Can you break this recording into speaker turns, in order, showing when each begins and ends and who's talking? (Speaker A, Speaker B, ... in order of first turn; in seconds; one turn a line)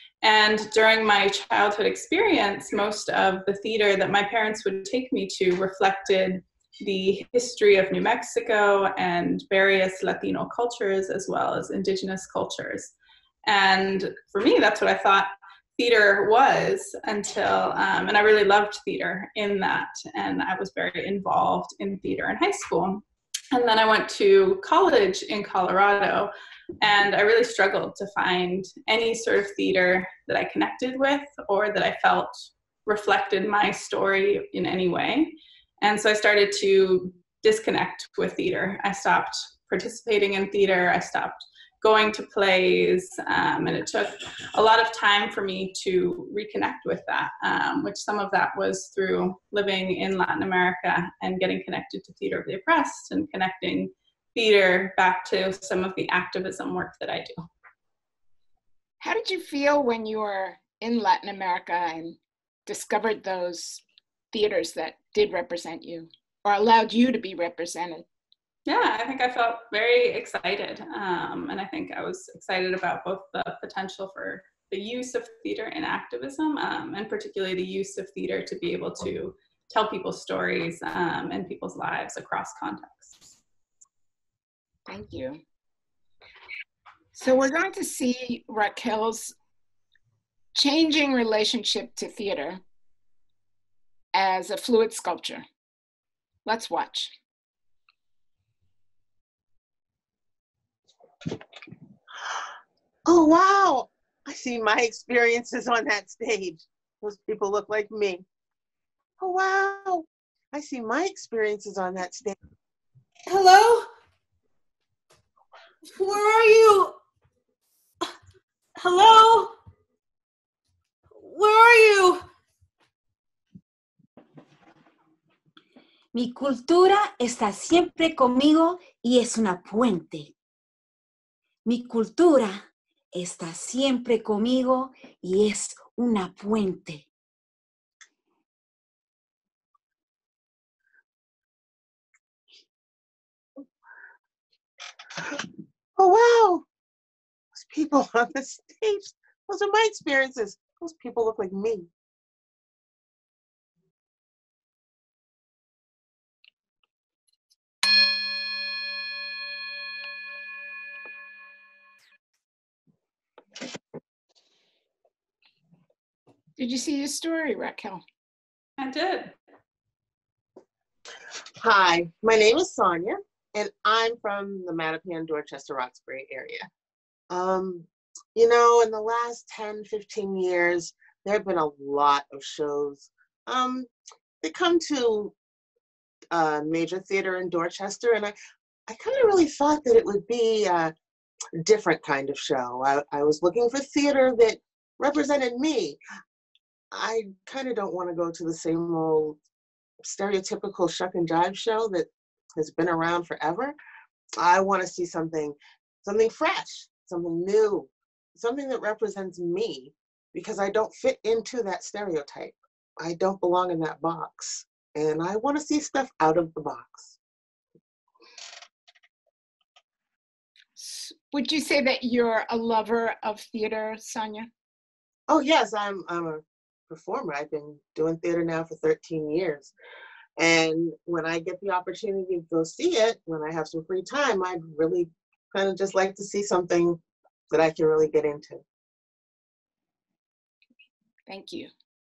Speaker A: 0.2-12.9
Speaker A: 13.4-57.5
Speaker B: 59.0-68.0
Speaker A: 68.7-83.4
Speaker B: 84.9-85.4
Speaker B: 87.1-89.3
Speaker B: 90.5-92.6
Speaker B: 94.1-95.4
Speaker B: 96.5-97.1
Speaker C: 103.0-108.2
Speaker C: 109.2-112.3
Speaker D: 113.3-113.9
Speaker D: 116.0-116.9
Speaker E: 118.8-119.5
Speaker E: 121.2-121.9
Speaker D: 121.4-122.1
Speaker E: 126.1-130.3
Speaker E: 131.6-137.1
Speaker C: 146.0-146.7
Speaker C: 147.5-151.9
Speaker B: 166.6-168.0
Speaker A: 168.8-169.3
Speaker C: 171.6-176.7
Speaker C: 177.3-183.9
Speaker C: 184.4-185.3
Speaker C: 186.3-188.3
Speaker C: 188.9-190.9
Speaker C: 191.6-196.0
Speaker C: 196.9-199.4
Speaker C: 200.0-203.7
Speaker C: 204.4-217.1
Speaker B: 220.8-224.5
Speaker C: 225.3-229.7
Speaker C: 230.4-237.0
Speaker C: 237.5-238.6
Speaker B: 241.3-241.7